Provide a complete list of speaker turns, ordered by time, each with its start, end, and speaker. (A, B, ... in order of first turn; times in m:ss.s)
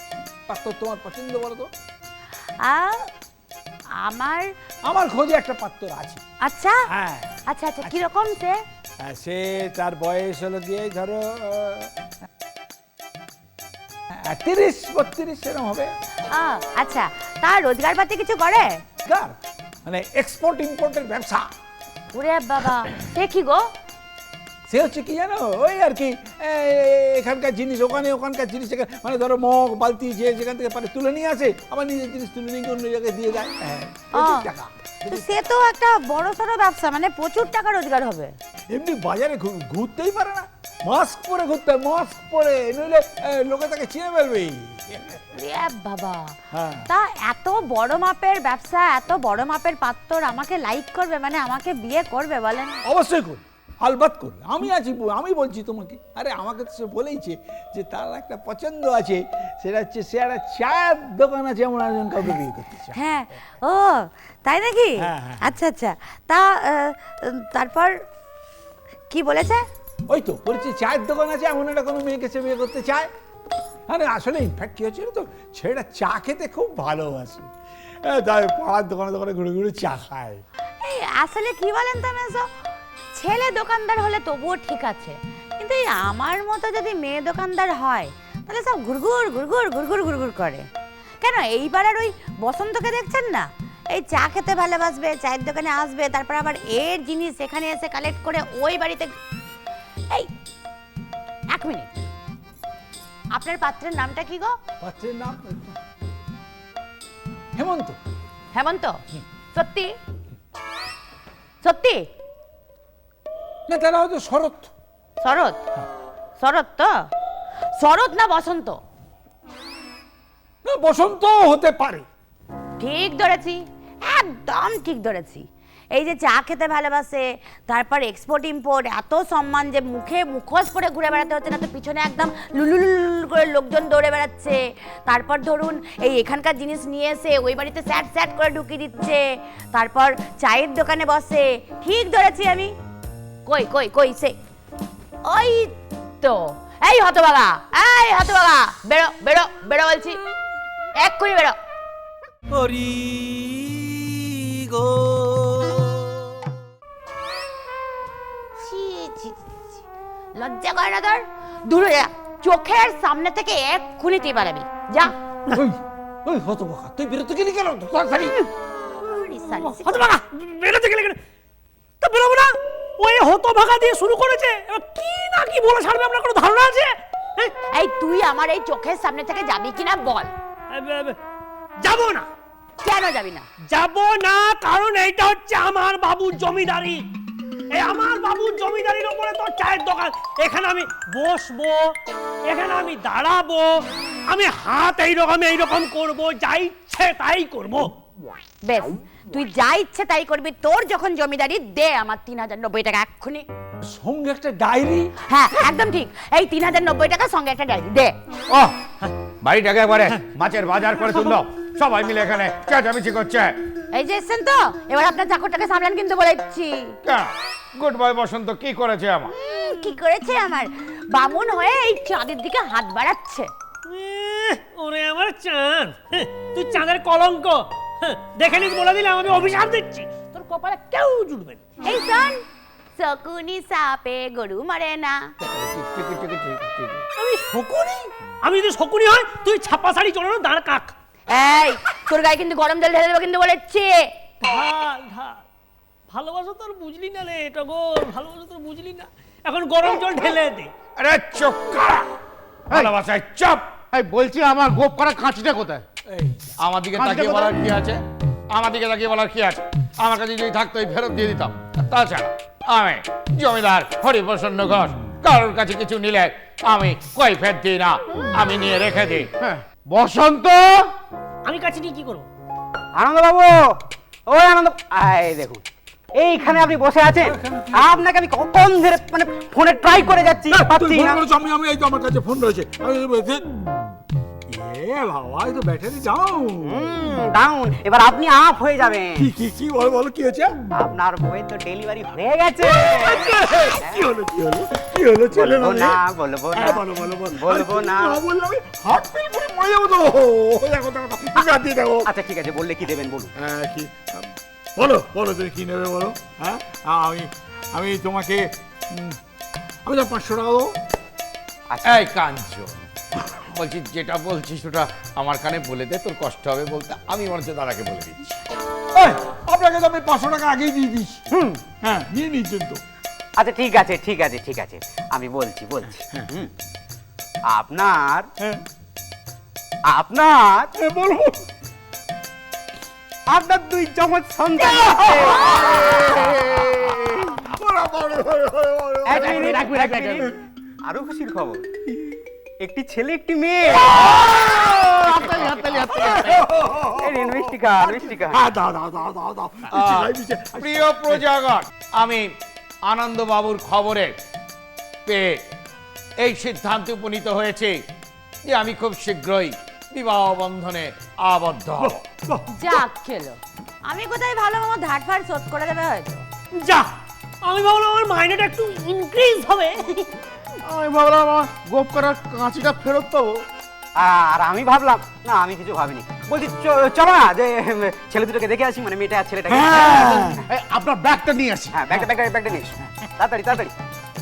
0:00.5-0:01.7 A
0:02.6-0:03.1 B
0:04.0-0:04.5 B
0:04.8-0:06.2 A
0:06.4-0:06.8 B
0:06.9-0:07.3 A
0:07.5-0:08.6 B
0:09.0-0:11.9 A
0:14.2-0:15.9 A
0:16.3-0:18.8 B
0:19.0-0:19.3 A
0:19.8-0:21.5 A
0:22.1-0:23.7 B
0:24.7-0:35.3 A
0:34.1-0:34.5 B
0:35.1-0:38.4 B
0:38.7-0:45.2 A
0:45.3-0:52.8 B
0:46.5-0:46.9 A
0:52.8-1:02.9 A
1:02.9-1:08.0 B
1:05.0-1:05.5 A
1:09.1-1:09.7 B
1:10.1-1:13.1 A
1:13.9-1:17.5 A
1:18.0-1:20.4 A
1:20.8-1:22.5 B
1:23.1-1:30.7 B
1:31.2-1:39.1 B
1:41.5-1:41.9 B
1:43.3-1:44.6 B
1:44.8-1:45.8 A
1:47.6-1:48.0 A
1:48.5-1:49.0 B
1:49.5-1:50.0 B
1:51.6-1:52.1 B
1:53.7-1:54.7 A
1:55.2-1:55.6 B
1:56.4-1:57.1 B
1:57.8-1:58.8 B
2:00.6-2:02.1 A
2:02.8-2:22.7 B
2:23.4-2:24.4 B
2:25.2-2:30.2 B
2:31.0-2:31.6 B
2:32.5-2:36.0 C
2:38.6-2:39.6 B
2:40.4-2:45.1 B
2:45.5-2:48.4 A
2:49.0-2:50.2 B
2:49.7-2:51.2 D
2:52.0-2:57.5 D
2:57.7-3:00.3 B
3:00.7-3:01.2 D
3:01.8-3:02.3 D
3:02.8-3:03.5 B
3:03.7-3:07.1 D
3:07.7-3:12.0 D
3:12.5-3:17.9 D
3:18.6-3:23.4 B
3:23.8-3:25.1 A
3:25.3-3:28.1 B
3:28.5-3:28.7 E
3:29.4-3:33.6 E
3:33.9-3:36.9 B
3:37.0-3:39.3 E
3:39.3-3:43.5 B
3:43.8-3:51.6 D
3:51.8-3:52.4 B
3:53.0-3:55.3 B
3:55.4-3:57.0 F
3:57.2-4:00.9 D
4:01.3-4:04.1 B
4:04.4-4:05.4 D
4:06.1-4:10.7 D
4:11.0-4:12.1 E
4:12.7-4:12.9 F
4:12.7-4:13.6 E
4:13.9-4:15.8 F
4:16.1-4:16.5 A
4:16.6-4:29.3 E
4:16.9-4:17.7 F
4:29.4-4:30.9 F
4:31.4-4:32.3 D
4:33.0-4:35.6 G
4:36.1-4:41.2 G
4:37.2-4:38.0 A
4:40.5-4:43.8 A
4:44.5-4:46.8 A
4:46.6-4:49.3 G
4:49.2-4:50.5 A
4:50.7-4:54.0 G
4:52.6-4:56.0 A
4:55.3-4:58.2 G
4:56.5-5:02.1 A
5:02.0-5:03.3 G
5:03.4-5:09.2 A
5:09.8-5:10.7 A
5:11.7-5:12.0 G
5:11.8-5:12.9 E
5:13.4-5:18.4 E
5:18.9-5:21.2 A
5:21.3-5:21.6 G
5:21.8-5:22.8 A
5:23.4-5:26.5 G
5:27.5-5:28.3 G
5:29.8-5:30.7 G
5:30.8-5:31.4 A
5:33.3-5:36.2 G
5:34.6-5:36.0 A
5:35.6-5:37.4 F
5:37.4-5:39.7 A
5:39.0-5:40.3 G
5:39.1-5:40.3 F
5:40.8-5:44.2 G
5:44.2-5:46.5 F
5:45.9-5:51.2 A
5:46.9-5:48.4 G
5:49.7-5:52.3 E
5:52.8-5:54.1 E
5:55.0-5:55.4 E
5:56.2-5:57.8 E
5:58.4-6:02.0 E
6:01.8-6:02.8 A
6:02.5-6:06.2 B
6:06.6-6:10.2 D
6:10.6-6:13.4 F
6:14.0-6:20.3 G
6:19.7-6:20.4 A
6:19.7-6:22.0 F
6:21.7-6:23.7 G